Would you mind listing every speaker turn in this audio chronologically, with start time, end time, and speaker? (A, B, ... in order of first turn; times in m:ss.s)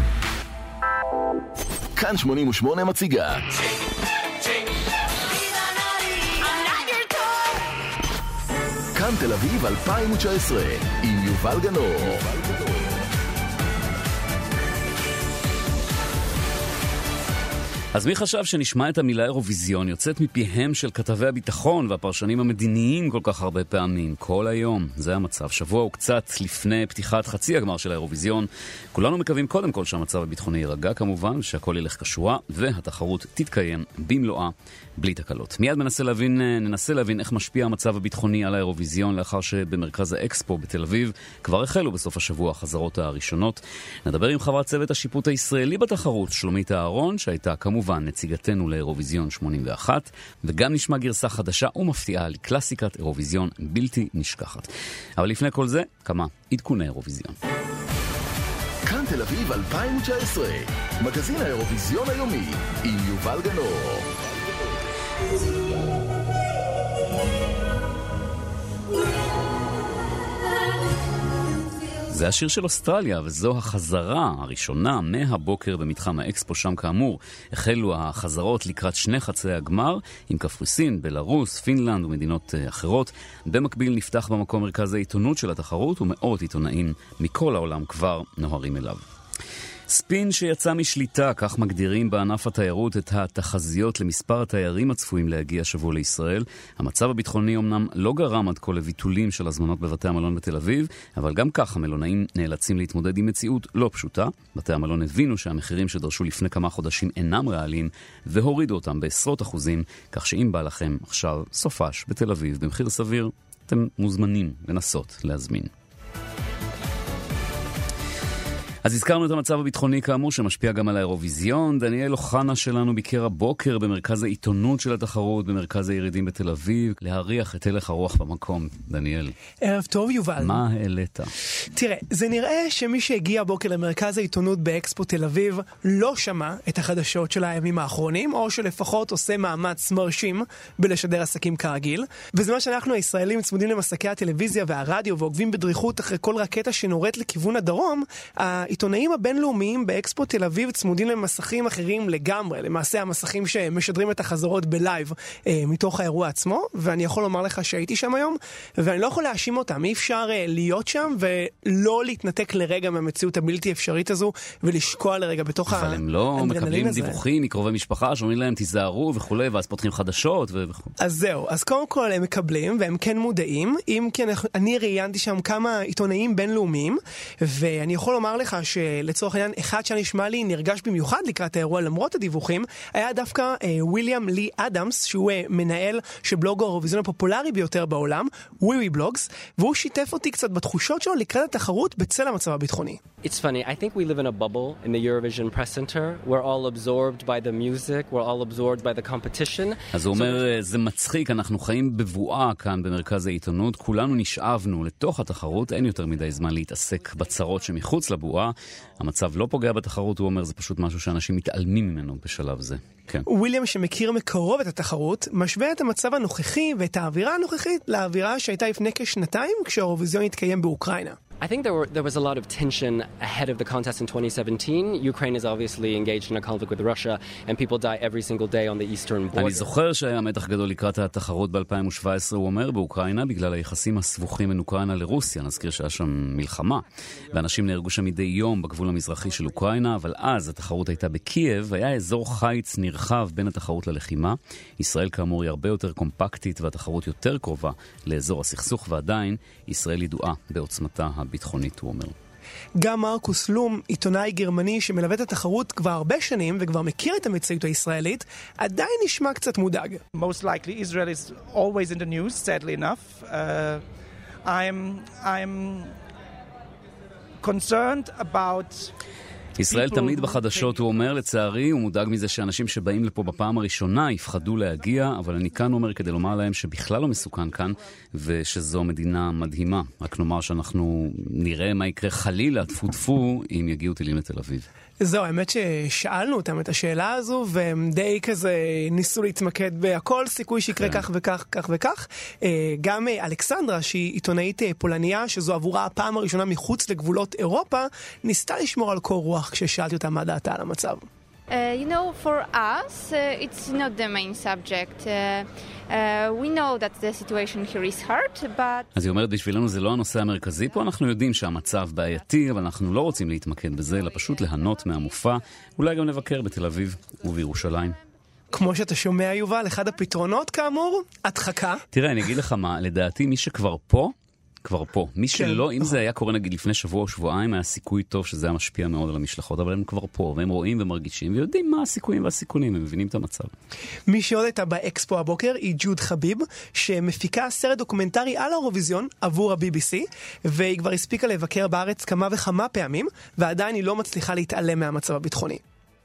0:02.0-0:03.5 A
0:09.0-0:12.7 A
0:17.9-0:57.4 B
0:58.9-1:04.1 A
1:12.1-1:29.0 B
1:29.9-1:55.7 B
1:58.8-2:09.4 B
2:09.6-2:10.6 C
2:10.4-2:11.3 B
2:11.8-2:47.2 C
2:45.7-2:50.9 B
2:51.0-3:13.0 C
3:13.2-3:20.4 D
3:19.9-3:33.3 B
3:33.3-3:41.2 C
3:41.4-3:49.7 D
3:49.3-4:12.1 B
4:12.8-4:20.0 C
4:20.2-4:23.8 E
4:24.5-4:25.9 E
4:27.4-4:28.9 E
4:29.6-4:44.7 B
4:29.6-4:30.9 E
4:45.0-5:01.0 C
4:50.8-4:51.0 B
5:01.5-5:08.9 F
5:08.9-5:18.0 B
5:18.5-5:21.8 C
5:21.9-5:24.1 B
5:24.6-5:33.5 B
5:25.3-5:25.9 C
5:34.1-5:45.6 C